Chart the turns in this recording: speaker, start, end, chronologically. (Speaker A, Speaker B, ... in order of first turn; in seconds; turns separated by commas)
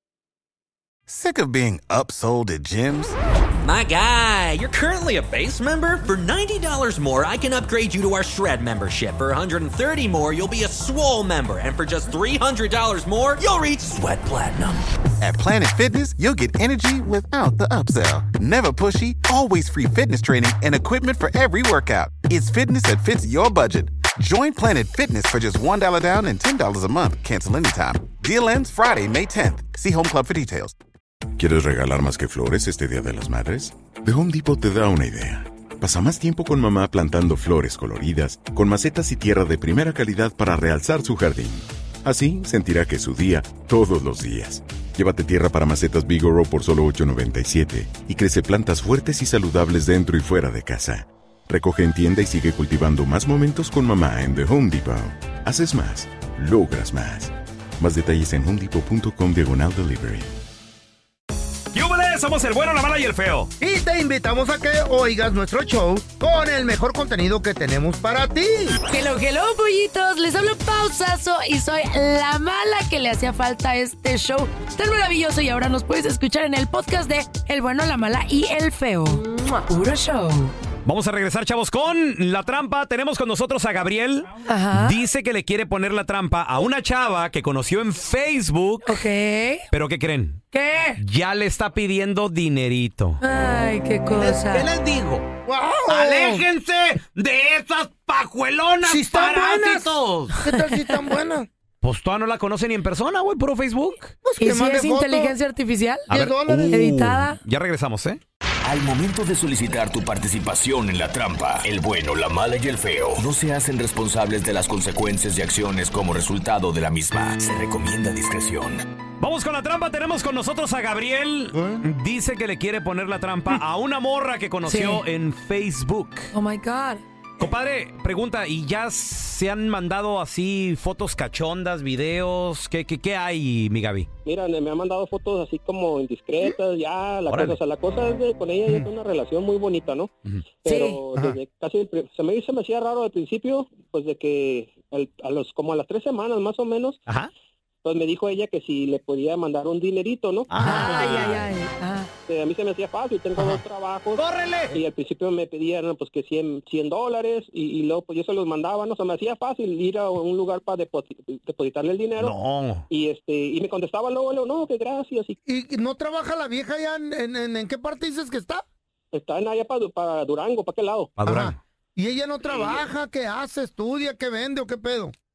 Speaker A: 1.1-3.1, Speaker B: 3.6-14.7, Speaker A: 15.2-30.7, Speaker C: 31.4-60.3, Speaker D: 61.7-63.5, Speaker E: 63.6-68.8, Speaker F: 68.9-80.5, Speaker D: 80.8-89.0, Speaker F: 84.5-85.0, Speaker F: 88.8-89.6, Speaker D: 89.7-90.4, Speaker F: 90.5-91.0, Speaker D: 91.0-93.2, Speaker F: 93.2-94.7, Speaker D: 94.1-95.2, Speaker E: 95.5-96.4, Speaker D: 95.9-100.3, Speaker E: 98.8-101.5, Speaker F: 100.4-100.9, Speaker D: 101.8-104.1, Speaker E: 104.2-105.3, Speaker F: 104.4-106.1, Speaker D: 106.1-108.2, Speaker E: 106.1-107.0, Speaker F: 106.7-107.4, Speaker G: 108.6-118.8, Speaker D: 119.2-126.3, Speaker E: 121.5-121.8, Speaker F: 124.6-125.0, Speaker F: 126.3-127.0, Speaker D: 127.4-134.1, Speaker H: 134.2-140.1, Speaker D: 137.3-137.6, Speaker H: 140.6-147.0, Speaker F: 140.7-141.0, Speaker H: 147.8-151.0, Speaker D: 150.5-151.5, Speaker F: 150.6-152.1, Speaker H: 152.3-162.4, Speaker D: 154.2-154.8, Speaker D: 162.2-162.8, Speaker H: 162.9-165.4, Speaker E: 165.4-168.6, Speaker H: 169.1-171.1, Speaker D: 171.2-171.6, Speaker E: 171.2-175.1